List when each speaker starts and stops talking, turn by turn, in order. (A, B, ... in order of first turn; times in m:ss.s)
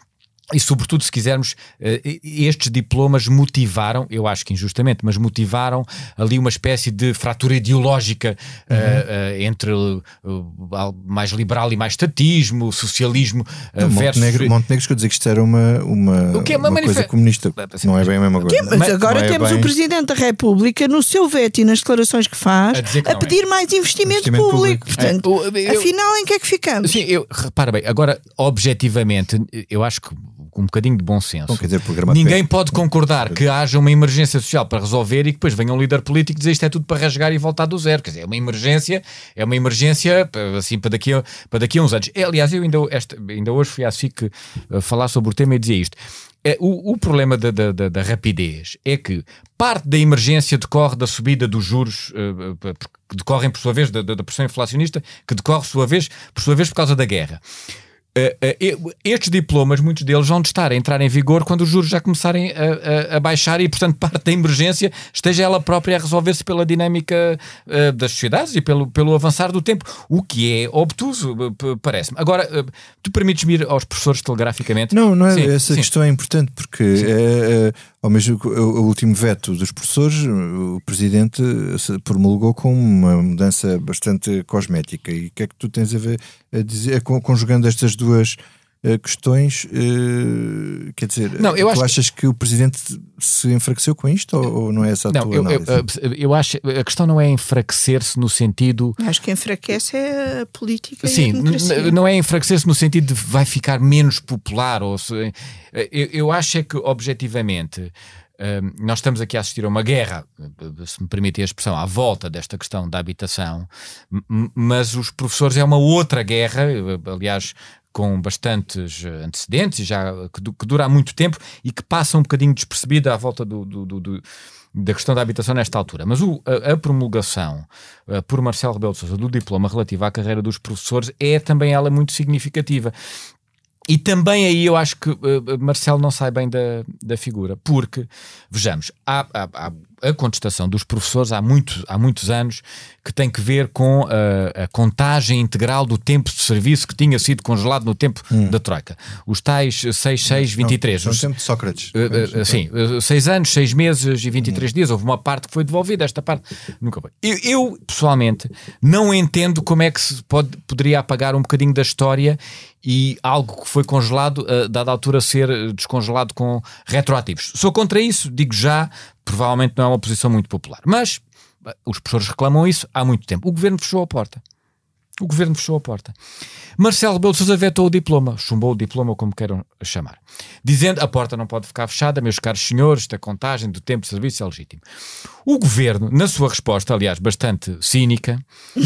0:00.5-0:14.5 A
0:08.7-0:09.0 B
0:13.8-0:19.7 B
0:16.3-0:18.1 A
0:18.5-0:27.0 C
0:22.7-0:23.4 A
0:24.0-0:24.9 B
0:25.0-0:25.9 A
0:26.8-0:57.4 A
0:31.5-0:33.4 B
0:58.1-1:15.9 A
1:14.9-1:35.8 B
1:31.4-1:31.9 A
1:35.1-1:39.0 A
1:39.0-1:41.9 C
1:41.0-2:04.2 A
2:04.7-2:12.9 A
2:13.9-2:31.3 A
2:28.3-2:28.6 B
2:30.3-2:32.6 B
2:31.9-2:54.4 A
2:34.4-2:34.6 B
2:55.2-2:56.1 A
2:56.8-3:04.8 A
3:05.4-3:08.4 A